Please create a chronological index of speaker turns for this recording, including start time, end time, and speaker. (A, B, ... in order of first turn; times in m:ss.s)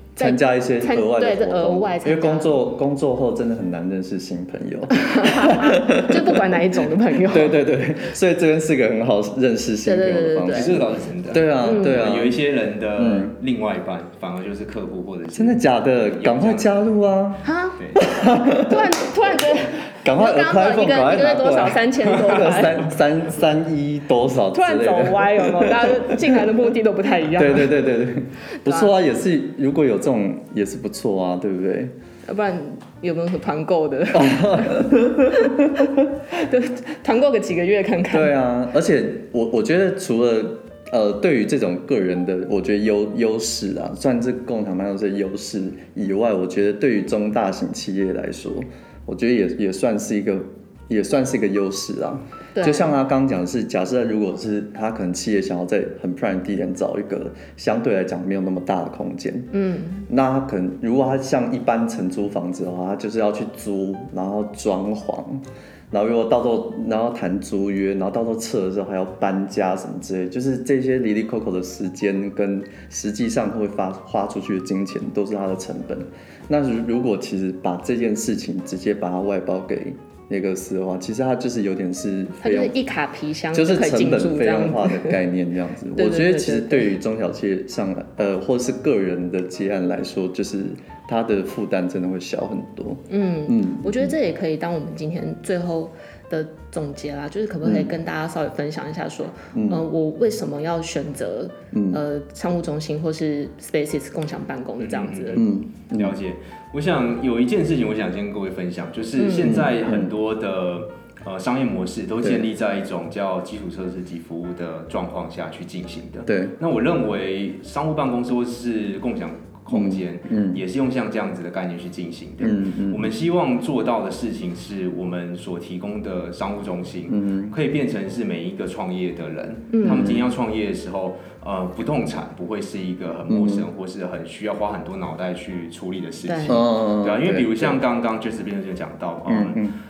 0:00.2-0:02.6 A
0:00.2-0:06.6 B
0:05.0-0:07.6 A
0:07.2-0:12.4 B
0:09.8-0:10.8 A
0:10.5-0:16.8 C
0:11.6-0:12.0 A
0:13.0-0:13.3 B
0:15.3-0:17.4 B
0:17.4-0:17.8 A
0:17.8-0:18.0 C
0:18.0-0:19.0 B
0:18.5-0:22.8 A
0:20.0-0:26.5 B
0:24.5-0:27.8 A
0:27.3-0:31.9 B
0:28.6-0:28.9 A
0:32.3-0:35.8 A
0:34.1-0:36.1 B
0:36.3-0:38.3 A
0:38.1-0:59.5 B
0:52.6-0:52.9 A
0:59.5-1:00.1 A
1:00.1-1:22.8 B
1:22.4-1:25.2 A
1:23.5-1:34.2 B
1:26.0-1:26.9 A
1:33.1-1:45.4 A
1:37.6-1:37.9 B
1:39.5-1:39.8 B
1:41.7-1:42.0 B
1:44.8-2:19.6 C
1:45.4-1:46.2 B
1:49.2-1:49.5 A
1:49.4-1:50.1 B
1:56.3-1:56.6 B
1:59.7-2:00.6 B
2:02.4-2:03.1 B
2:07.1-2:07.6 B
2:09.7-2:10.2 A
2:09.8-2:10.2 B
2:13.3-2:13.7 B
2:16.3-2:16.6 A
2:16.5-2:17.8 B
2:19.3-2:19.8 B